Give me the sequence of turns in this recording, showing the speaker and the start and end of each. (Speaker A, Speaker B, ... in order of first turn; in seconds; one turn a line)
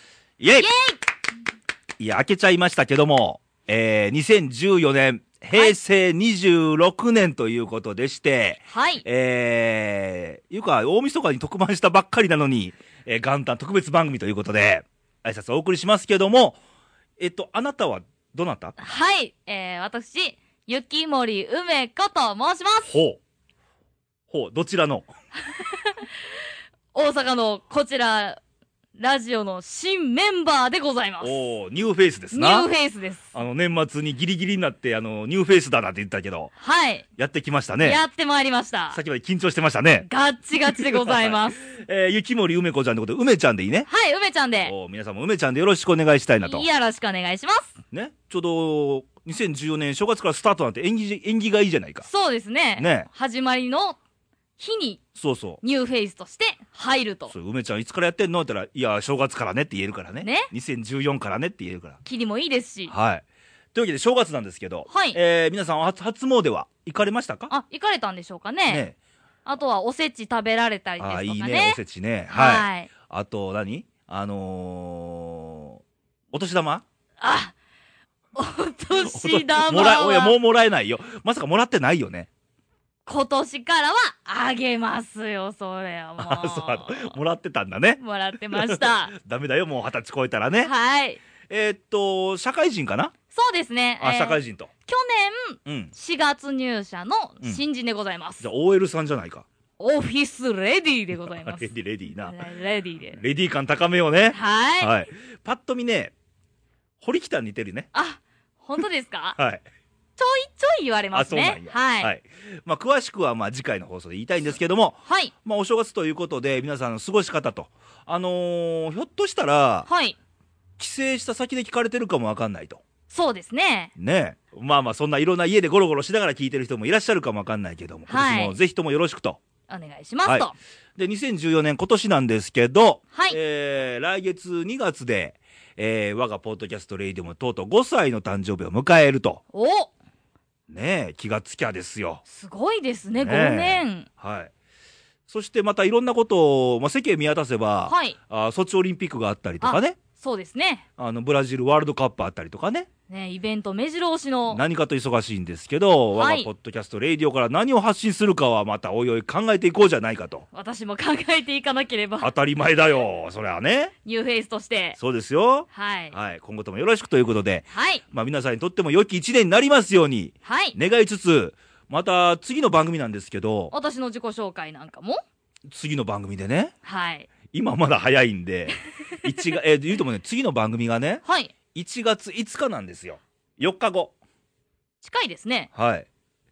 Speaker A: 0.4-0.7
Speaker B: 0.6-1.0
Speaker A: 2.0-16.6
Speaker B: 8.7-9.0
Speaker A: 17.2-18.8
Speaker B: 18.8-22.9
Speaker A: 22.9-23.2
Speaker A: 24.3-25.1
Speaker B: 26.9-28.4
Speaker B: 29.0-31.4
Speaker A: 31.2-32.7
Speaker B: 32.3-33.3
Speaker A: 33.3-36.5
Speaker B: 36.6-37.0
Speaker A: 37.2-38.0
Speaker B: 37.8-39.0
Speaker A: 38.9-40.1
Speaker B: 40.1-41.6
Speaker A: 40.7-43.9
Speaker B: 43.9-44.7
Speaker A: 44.6-46.7
Speaker B: 46.4-47.8
Speaker A: 47.9-52.1
Speaker B: 52.0-54.0
Speaker A: 52.8-53.1
Speaker B: 54.6-55.0
Speaker A: 55.2-55.6
Speaker B: 55.6-57.3
Speaker A: 57.3-62.0
Speaker B: 60.2-60.5
Speaker B: 62.0-62.9
Speaker A: 62.9-67.5
Speaker B: 64.9-65.2
Speaker B: 67.5-68.8
Speaker A: 68.7-69.0
Speaker B: 69.5-71.8
Speaker A: 71.0-75.8
Speaker B: 72.3-72.9
Speaker A: 76.3-76.8
Speaker B: 77.2-77.5
Speaker B: 78.3-80.4
Speaker A: 79.1-82.3
Speaker B: 83.1-87.2
Speaker A: 86.2-90.7
Speaker B: 88.0-89.1
Speaker B: 90.6-91.2
Speaker A: 91.5-93.1
Speaker B: 93.3-98.5
Speaker A: 94.0-94.7
Speaker A: 95.7-95.9
Speaker A: 98.4-99.5
Speaker B: 99.8-103.2
Speaker A: 101.2-102.4
Speaker A: 103.2-106.1
Speaker B: 104.3-104.9
Speaker A: 107.0-107.9
Speaker B: 107.9-109.4
Speaker A: 109.4-109.6
Speaker B: 110.2-112.1
Speaker A: 111.1-119.9
Speaker B: 115.1-115.3
Speaker B: 119.9-120.2
Speaker A: 120.8-122.8
Speaker B: 123.1-123.9
Speaker A: 124.0-129.4
Speaker B: 128.1-128.6
Speaker B: 129.7-130.6
Speaker A: 130.2-139.4
Speaker B: 133.1-133.4
Speaker B: 139.5-139.9
Speaker A: 140.7-142.2
Speaker B: 142.2-144.1
Speaker A: 143.2-144.5
Speaker A: 145.3-150.0
Speaker B: 147.9-148.2
Speaker B: 149.6-150.8
Speaker A: 151.0-152.9
Speaker B: 153.1-154.6
Speaker A: 154.5-160.5
Speaker B: 156.2-156.5
Speaker B: 160.5-162.3
Speaker A: 162.2-163.9
Speaker B: 164.1-165.0
Speaker A: 165.0-173.7
Speaker B: 165.7-166.1
Speaker B: 167.7-168.0
Speaker B: 170.4-170.8
Speaker B: 173.7-175.2
Speaker A: 175.7-176.7
Speaker B: 176.8-177.3
Speaker A: 177.5-181.2
Speaker B: 181.2-181.5
Speaker A: 181.7-184.1
Speaker B: 185.0-185.7
Speaker A: 185.7-186.1